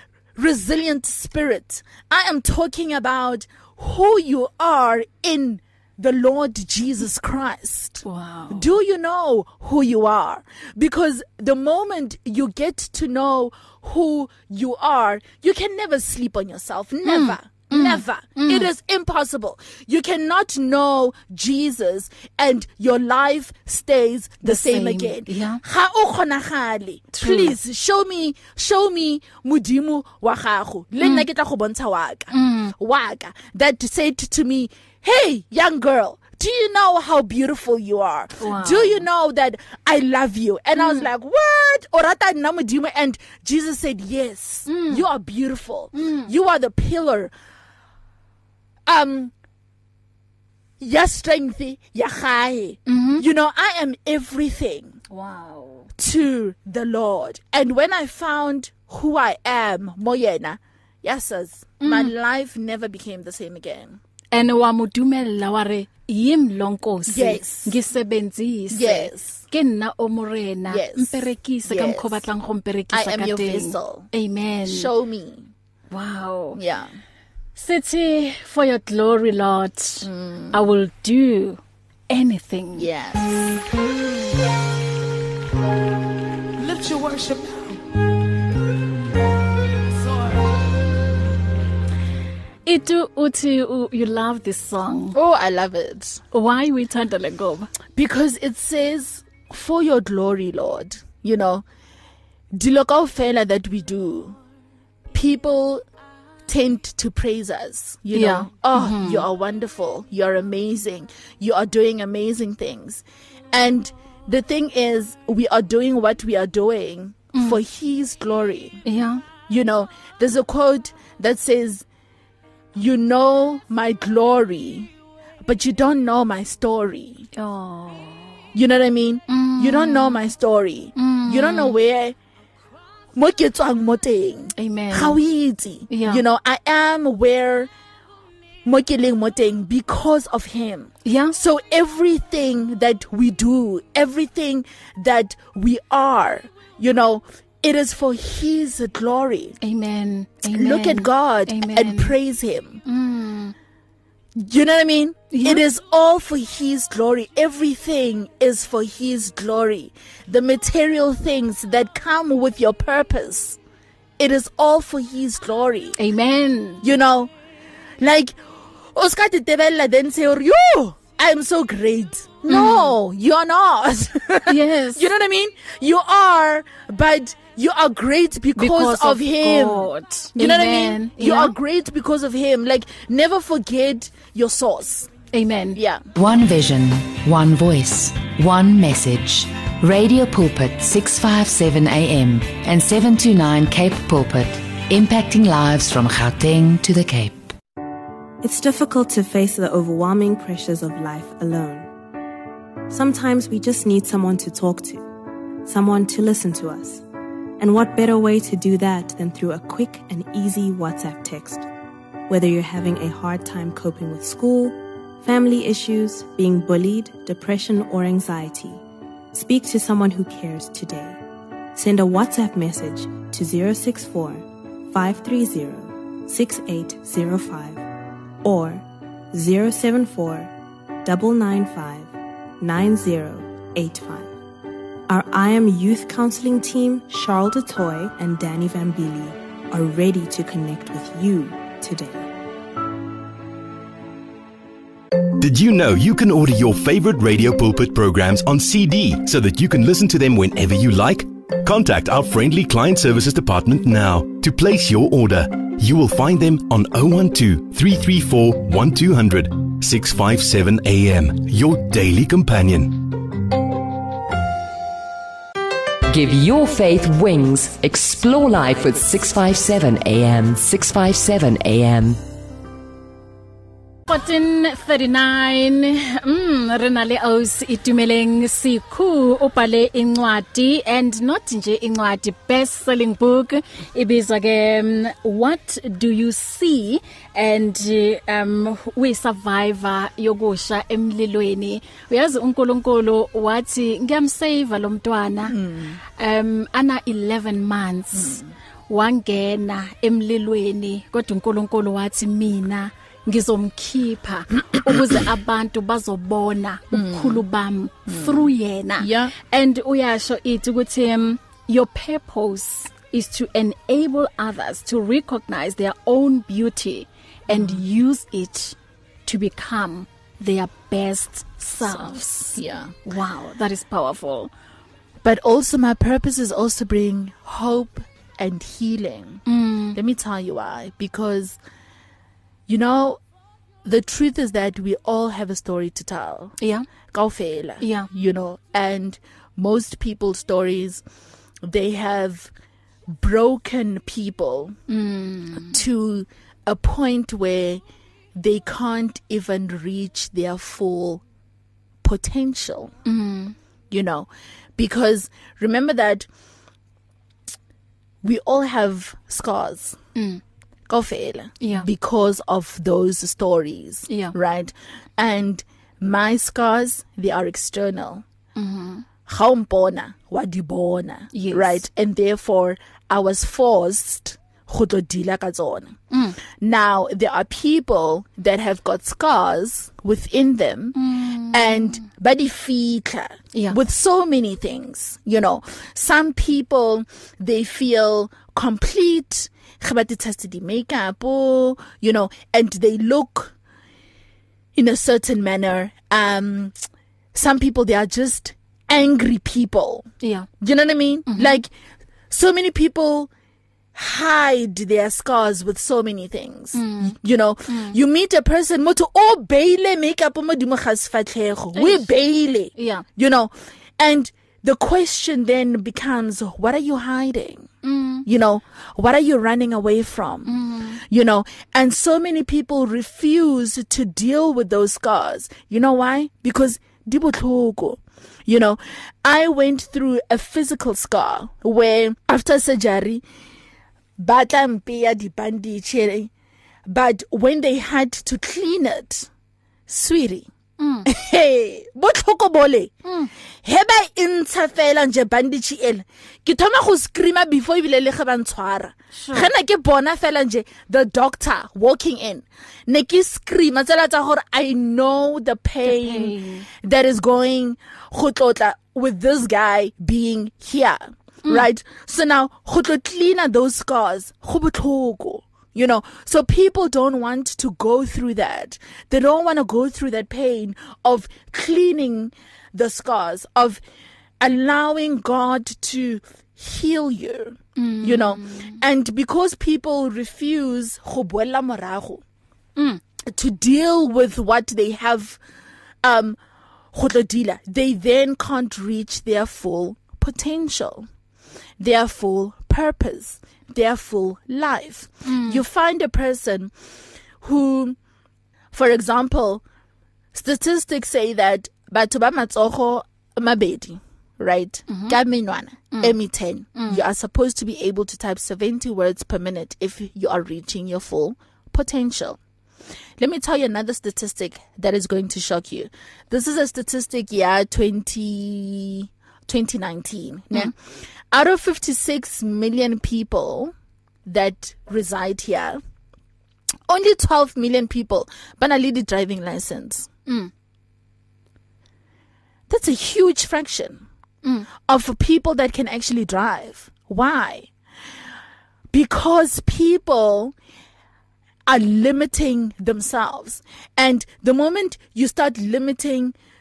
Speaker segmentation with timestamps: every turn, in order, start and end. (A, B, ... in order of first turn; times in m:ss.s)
0:00.4-0:47.3 A
0:08.0-0:08.7 B
0:17.0-0:18.7 B
0:24.4-0:25.6 B
0:27.1-0:27.6 B
0:31.0-0:31.2 B
0:32.3-0:32.7 B
0:38.4-0:39.0 B
0:40.8-0:41.1 B
0:44.7-0:45.0 B
0:45.9-0:46.3 B
0:48.9-0:49.3 A
0:50.8-0:55.0 A
0:52.9-0:53.2 B
0:55.1-0:55.9 B
0:56.0-1:04.0 A
1:01.8-1:02.1 B
1:04.3-1:14.9 B
1:07.1-1:07.8 A
1:08.7-1:09.4 A
1:10.6-1:12.2 A
1:12.9-1:14.1 A
1:14.6-1:15.5 A
1:15.9-1:16.6 B
1:16.6-1:17.0 A
1:17.6-1:22.9 B
1:20.0-1:20.6 A
1:22.8-1:23.6 A
1:26.7-1:27.4 A
1:32.6-1:35.2 B
1:35.1-1:36.2 A
1:36.3-1:37.7 B
1:38.0-1:41.6 A
1:42.5-1:44.4 A
1:45.1-1:45.8 A
1:46.5-1:58.8 A
1:48.1-1:49.2 B
1:57.3-1:57.6 B
1:58.8-1:59.2 B
1:59.5-2:01.8 A
2:02.8-2:04.9 A
2:05.4-2:07.3 A
2:07.3-2:08.4 B
2:08.5-2:12.2 A
2:09.3-2:10.3 B
2:11.0-2:11.8 B
2:13.2-2:17.7 A
2:14.6-2:15.2 B
2:15.9-2:16.2 B
2:18.6-2:29.6 A
2:21.0-2:21.3 B
2:29.6-2:32.2 B
2:30.5-2:32.8 A
2:32.8-2:33.5 B
2:34.4-2:43.6 A
2:35.3-2:35.6 B
2:44.2-2:46.0 A
2:46.0-2:46.8 B
2:46.8-2:47.3 A
2:48.0-2:48.4 A
2:48.9-3:05.1 A
2:52.5-2:53.0 B
2:54.5-2:55.1 B
2:58.6-3:01.5 B
3:05.3-3:05.8 B
3:05.7-3:06.1 A
3:06.2-3:17.5 C
3:18.4-3:21.9 D
3:22.9-3:25.0 D
3:25.6-3:27.0 D
3:27.6-3:31.7 D
3:32.3-3:41.2 D
3:41.8-3:47.8 D
3:48.4-3:50.5 D
3:51.0-3:54.3 D
3:55.1-4:02.3 D
4:05.4-4:23.2 E
4:26.1-4:32.2 F
4:34.1-4:55.6 B
4:55.5-4:56.0 A
4:56.2-5:24.5 B
4:58.1-4:58.5 A
5:04.9-5:05.2 A
5:06.9-5:07.4 A
5:08.1-5:09.3 A
5:17.5-5:17.8 A
5:21.8-5:22.9 A
5:25.2-5:31.6 A
5:29.5-5:30.0 B
5:32.7-5:33.2 A
5:33.8-5:36.5 A
5:36.6-5:36.9 B
5:37.1-5:41.0 A
5:37.8-5:38.1 B
5:41.6-5:42.5 A
5:43.1-5:44.8 A
5:44.9-5:45.8 B
5:45.7-5:47.8 A
5:48.3-5:51.2 A
5:52.0-5:52.9 A
5:53.0-5:53.6 B
5:53.9-5:56.3 A
5:58.2-6:00.0 A
6:00.2-6:00.4 B
6:00.9-6:08.2 A
6:01.6-6:01.9 B
6:04.1-6:04.3 B
6:08.6-6:09.0 B
6:09.3-6:16.0 A
6:11.3-6:11.8 B
6:16.1-6:16.4 B
6:16.5-6:21.0 A
6:21.0-6:21.8 B
6:21.5-6:33.5 A
6:34.8-6:36.8 A
6:37.3-6:40.1 A
6:40.2-6:40.5 B
6:40.6-6:41.7 A
6:41.3-6:41.6 B
6:42.3-6:43.3 A
6:44.0-6:57.7 A
6:46.7-6:47.2 B
6:47.7-6:48.0 B
6:51.8-6:52.1 B
6:52.8-6:53.0 B
6:57.8-6:58.2 B
6:58.2-7:13.2 A
7:00.5-7:01.0 B
7:14.2-7:16.3 A
7:16.9-7:19.3 A
7:19.9-7:20.5 A
7:20.8-7:21.1 B
7:21.0-7:22.9 A
7:23.0-7:23.3 B
7:23.6-7:53.8 A
7:29.1-7:29.5 B
7:35.8-7:36.7 B
7:54.4-8:02.2 A
7:57.8-7:58.8 B
8:03.2-8:05.4 A
8:06.0-8:06.4 A
8:06.9-8:11.1 A
8:11.8-8:16.7 A
8:15.2-8:15.6 B
8:17.4-8:18.0 A
8:18.7-8:19.6 A
8:20.3-8:32.4 A
8:24.9-8:25.2 B
8:26.8-8:27.0 B
8:33.2-8:43.7 A
8:44.2-8:45.8 A
8:46.9-8:50.1 A
8:52.7-8:54.0 A
8:54.9-8:57.7 A
8:58.9-9:00.5 A
9:01.7-9:06.3 A